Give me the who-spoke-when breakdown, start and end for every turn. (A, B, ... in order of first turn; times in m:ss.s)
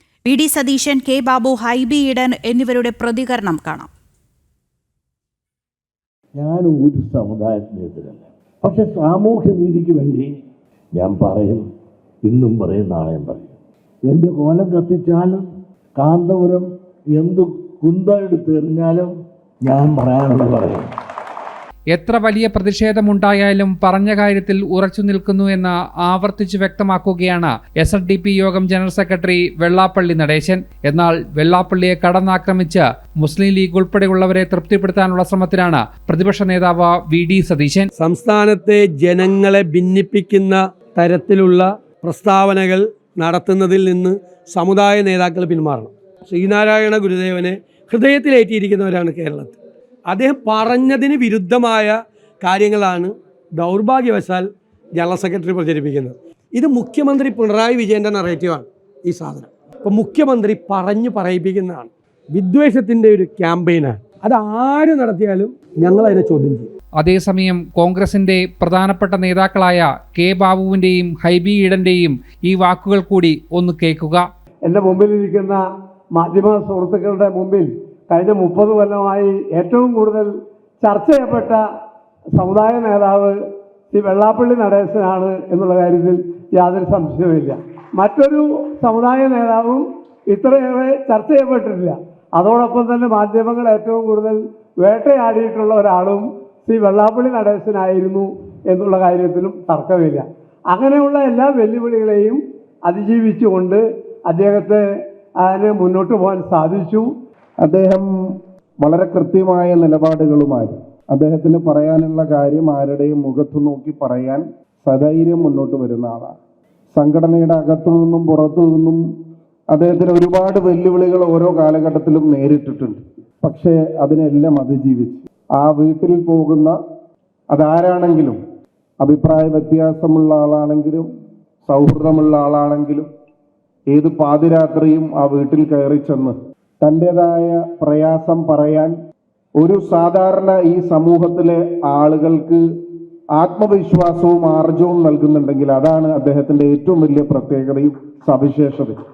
0:00.3-0:03.9 A
0:06.4-0:10.4 B
0:11.0-0:11.7 B
0:12.2-0:19.1 B
0:19.6-0:20.9 B
0:21.9-0:37.9 C
0:38.0-0:49.6 D
0:50.1-1:06.7 D
1:07.0-1:14.2 C
1:14.6-1:21.7 E
1:22.3-1:23.4 E
1:23.9-1:44.8 E
1:45.4-1:47.1 E
1:47.6-1:48.1 F
1:48.8-1:56.4 F
1:56.9-1:59.0 F
1:59.7-2:06.8 F
2:07.5-2:08.4 F
2:09.0-2:11.1 F
2:11.6-2:13.1 F
2:13.9-2:19.0 F
2:19.6-2:22.6 F
2:23.4-2:29.0 F